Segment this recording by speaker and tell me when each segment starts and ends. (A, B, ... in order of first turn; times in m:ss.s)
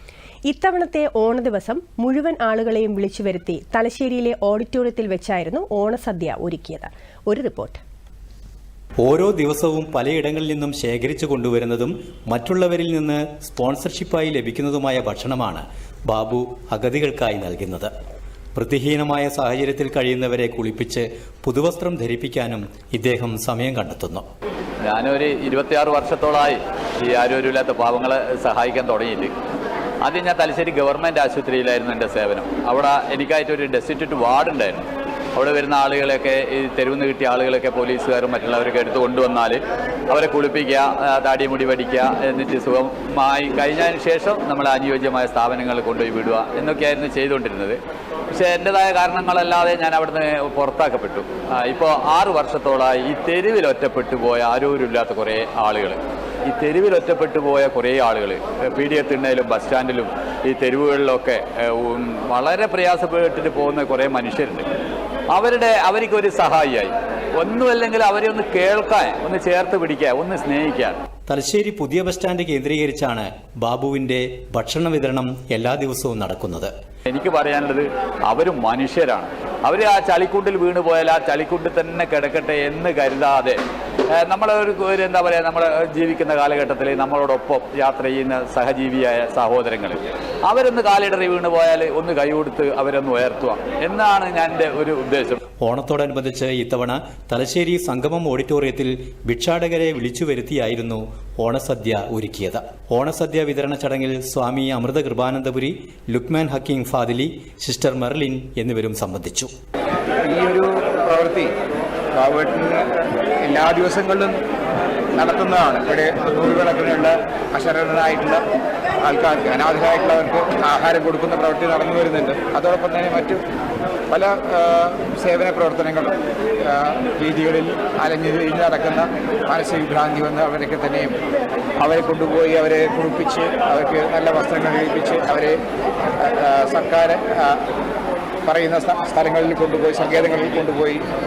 0:00.5-0:07.8 A
0:09.0-0:17.9 B
0:18.5-0:24.2 B
0:24.8-0:29.3 C
0:30.0-0:47.8 C
0:48.3-1:04.6 C
1:05.3-1:11.0 C
1:11.3-1:16.7 B
1:17.1-1:23.6 C
1:24.1-1:35.4 C
1:35.6-1:49.5 B
1:50.2-1:51.5 D
1:52.1-1:54.4 D
1:55.1-1:58.4 D
1:59.0-2:03.4 D
2:04.1-2:11.1 D
2:11.8-2:15.6 D
2:16.2-2:17.6 D
2:18.4-2:21.0 D